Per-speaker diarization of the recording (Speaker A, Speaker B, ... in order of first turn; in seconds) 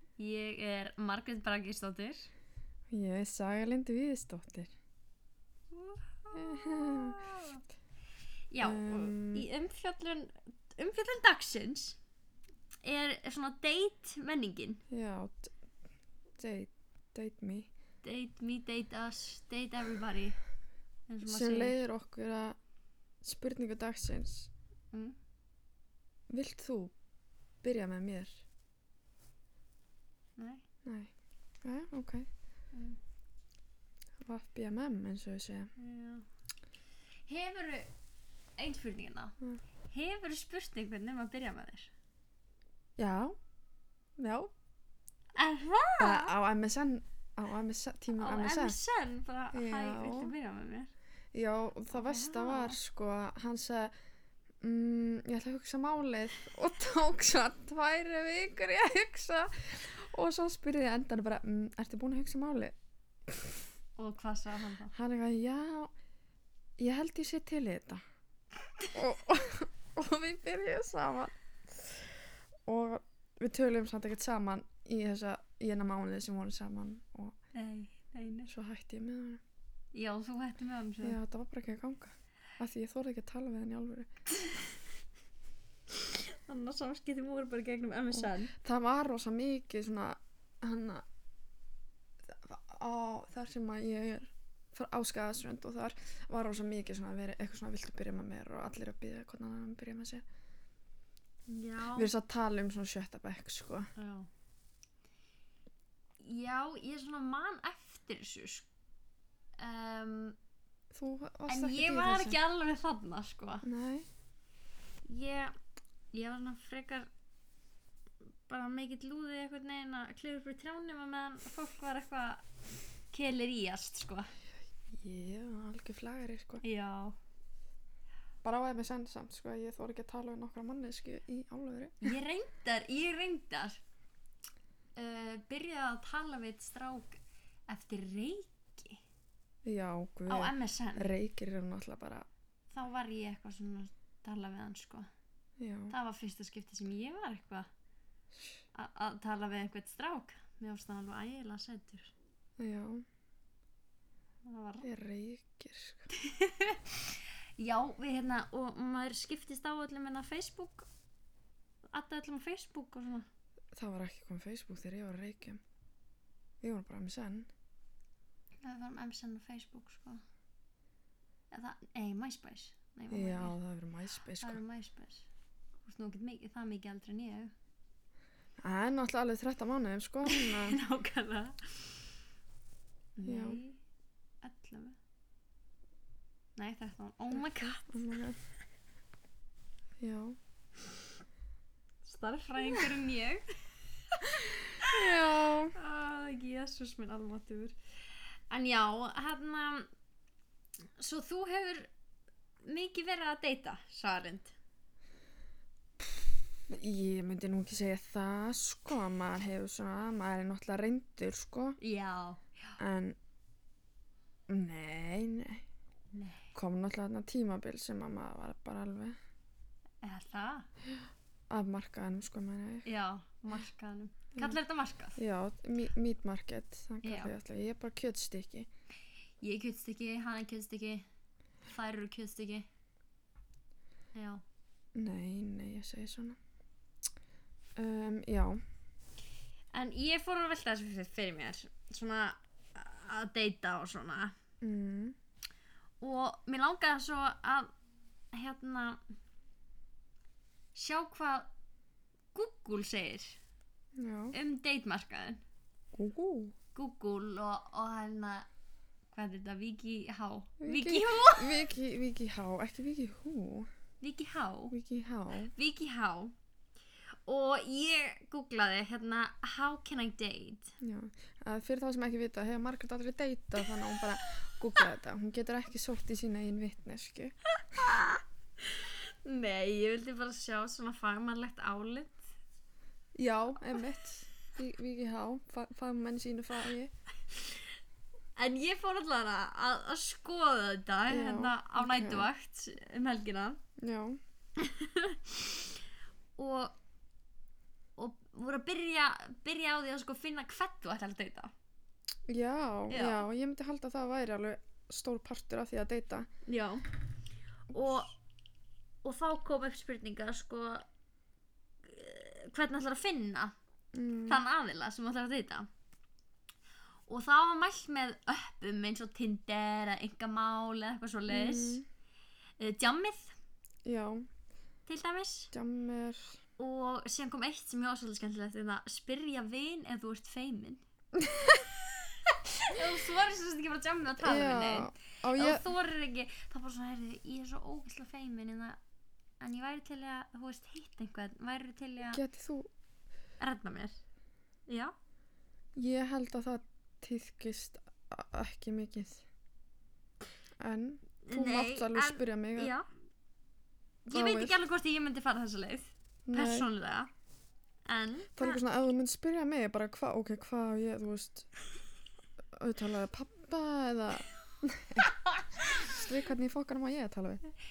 Speaker A: 0.2-2.3, 5.7-7.6, 8.5-12.0, 12.8-14.8, 18.0-20.4, 21.1-21.8, 24.9-25.2, 30.4-30.6, 32.7-33.0, 35.8-36.2, 37.3-37.9, 38.6-39.4, 39.9-41.9, 45.4-46.4, 48.1-50.9, 52.0-52.8, 64.0-64.9, 77.5-78.5, 79.9-81.2, 85.9-88.5, 101.5-102.1, 104.0-104.3, 106.2-108.7, 109.6-110.4, 111.5-113.7, 115.0-115.5, 116.1-117.1, 118.5-122.4, 123.1-124.3, 126.6-127.2, 132.0-133.8, 135.0-139.0, 140.3-141.1, 142.7-145.1, 145.9-147.7, 148.7-152.1, 154.5-154.9, 156.2-157.0, 157.6-160.9, 161.9-163.3, 168.6-170.2, 171.5-173.6, 174.4-175.3, 175.8-177.5, 180.3-182.0, 183.2-183.8, 184.4-185.0, 186.6-187.9, 192.1-193.4, 194.1-194.9, 195.7-197.8, 198.5-199.9, 201.0-201.9, 202.6-204.5, 211.8-212.8, 216.1-216.5, 220.0-220.7, 222.8-225.2, 227.0-227.3, 229.4-231.1, 231.7-232.7, 234.1-234.4, 239.7-244.4, 246.0-247.7, 248.3-249.0, 250.8-251.5, 252.3-253.4, 254.3-255.4, 256.8-258.5, 259.1-261.6, 264.0-264.8, 265.5-266.4, 267.3-270.8, 277.7-282.2, 288.4-293.6, 294.6-295.7, 296.4-296.8, 298.0-301.5, 302.9-303.3, 306.5-306.9, 307.7-308.1, 309.0-310.9, 311.9-313.5, 314.3-315.7, 317.1-321.8, 322.6-323.4, 324.9-325.5, 326.6-330.8, 332.6-338.8, 339.4-342.2, 343.4-344.0, 344.7-344.9, 351.2-352.9, 354.1-357.1, 357.9-358.6, 365.3-366.0
Speaker B: 2.9-4.7, 6.3-7.2, 8.6-9.5, 14.9-15.6, 16.4-17.7, 21.2-22.6, 23.2-24.5, 26.3-26.9, 27.6-28.4, 30.9-31.1, 31.6-32.3, 34.2-35.7, 43.0-43.4, 44.2-44.5, 46.0-48.8, 49.5-50.3, 51.3-53.9, 54.6-62.8, 64.9-65.9, 66.8-68.0, 68.9-72.1, 72.7-77.3, 78.5-79.4, 81.0-84.1, 88.2-91.0, 92.3-100.2, 102.0-103.9, 110.9-112.4, 113.6-114.1, 125.0-126.6, 128.4-132.1, 139.7-142.3, 145.6-145.9, 152.6-153.0, 154.8-156.1, 163.7-165.6, 166.6-167.5, 173.1-174.6, 178.6-180.8, 183.2-183.6, 187.3-188.4, 190.0-190.4, 194.8-195.8, 206.0-211.8, 212.8-213.2, 214.5-215.7, 216.5-219.2, 221.5-222.9, 225.2-228.7, 234.9-236.4, 237.8-238.6, 244.6-245.2, 254.0-254.3, 255.9-256.6, 260.6-263.7, 264.7-265.5, 270.8-277.8, 283.1-286.9, 291.1-292.3, 293.8-294.2, 302.3-306.3, 307.7-308.0, 313.9-314.4, 321.3-321.9, 323.9-324.3, 325.5-326.4, 331.2-331.6, 334.2-335.7, 342.1-342.7, 345.8-349.2, 350.6-352.7, 354.1-354.6, 356.3-356.7, 358.4-361.5, 362.5-365.1, 365.8-367.4